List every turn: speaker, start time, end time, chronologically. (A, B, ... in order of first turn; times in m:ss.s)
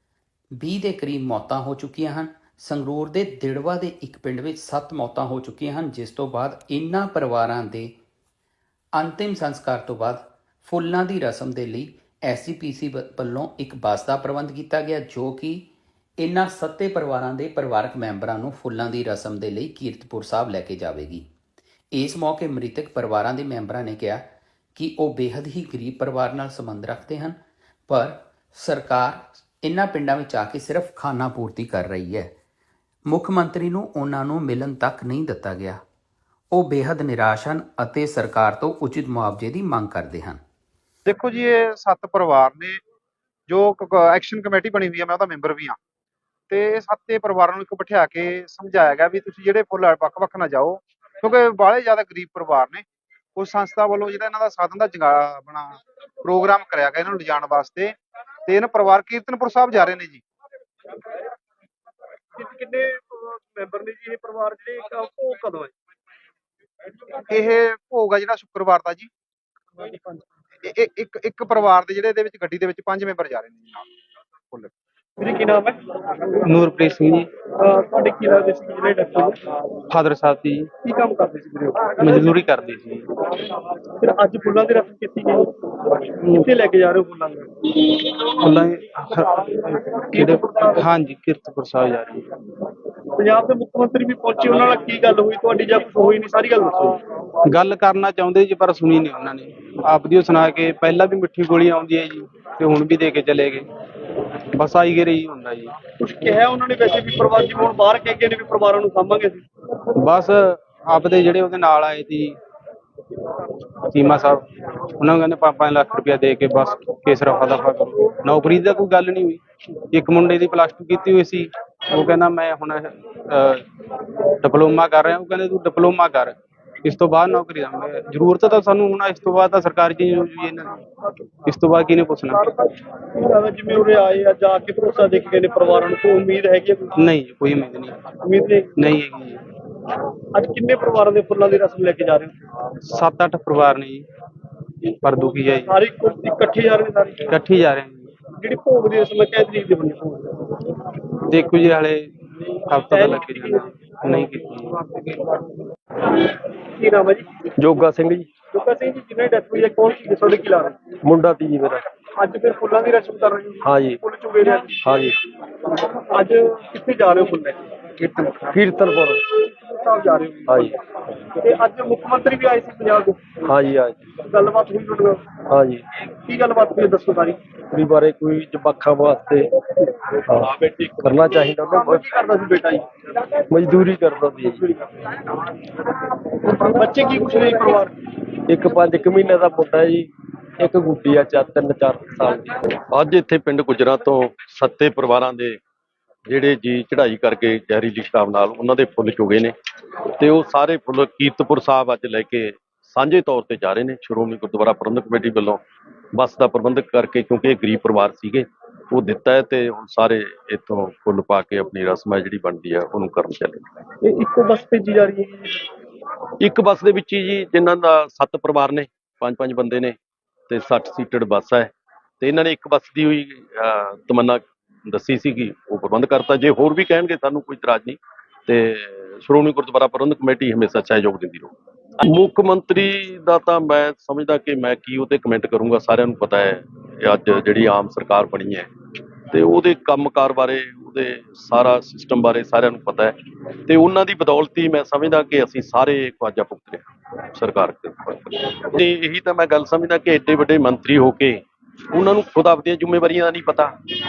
0:00.6-0:07.9 A
0:09.0-0:15.6 A
0:16.2-0:21.2 A
0:21.9-0:24.2 A
0:24.7-0:27.4 A
0:27.9-0:32.3 A
0:33.1-0:35.8 A
0:36.5-0:40.4 A
0:41.0-0:42.8 B
0:43.5-0:45.8 B
0:46.5-0:52.8 B
0:53.4-1:00.2 B
1:02.3-1:05.7 C
1:07.3-1:09.1 B
1:09.8-1:10.3 C
1:10.6-1:13.8 B
1:15.2-1:15.8 C
1:16.4-1:17.3 D
1:17.6-1:19.4 C
1:19.9-1:20.7 D
1:20.8-1:22.3 C
1:22.0-1:23.0 D
1:24.0-1:27.8 C
1:26.2-1:26.5 D
1:28.3-1:32.3 D
1:30.1-1:30.8 C
1:33.2-1:37.0 C
1:37.4-1:43.7 D
1:44.5-1:45.7 D
1:46.0-1:49.4 C
1:50.0-1:52.4 D
1:53.9-1:54.4 D
1:55.0-1:59.4 D
1:59.9-2:03.6 D
2:04.4-2:10.8 D
2:11.4-2:12.5 D
2:12.3-2:16.9 C
2:17.0-2:18.0 D
2:18.2-2:18.7 C
2:18.8-2:19.4 D
2:20.3-2:22.4 C
2:22.8-2:24.1 D
2:25.0-2:25.8 D
2:25.5-2:27.3 C
2:27.3-2:28.1 D
2:28.3-2:30.6 C
2:31.3-2:32.1 D
2:32.7-2:35.0 D
2:32.9-2:34.3 C
2:36.1-2:37.4 C
2:37.6-2:38.3 E
2:38.5-2:40.8 C
2:41.0-2:41.8 E
2:42.2-2:44.8 C
2:43.6-2:44.0 E
2:44.8-2:45.1 E
2:45.7-2:48.3 C
2:48.5-2:49.2 E
2:49.3-2:50.7 C
2:50.5-2:50.8 E
2:51.4-2:53.3 C
2:53.4-2:54.1 E
2:54.2-2:55.3 C
2:55.5-2:55.8 E
2:56.2-2:57.4 C
2:57.7-2:59.5 E
3:00.4-3:01.0 F
3:01.0-3:02.0 E
3:01.6-3:02.9 C
3:03.5-3:04.6 E
3:04.8-3:05.3 C
3:06.3-3:07.9 C
3:08.5-3:12.5 E
3:12.9-3:15.6 F
3:16.3-3:19.5 F
3:20.2-3:25.6 F
3:26.1-3:33.7 F
3:34.0-3:35.6 C
3:36.4-3:40.0 F
3:40.5-3:51.5 F
3:52.0-3:58.7 F
3:59.3-4:03.2 F
4:03.7-4:13.7 F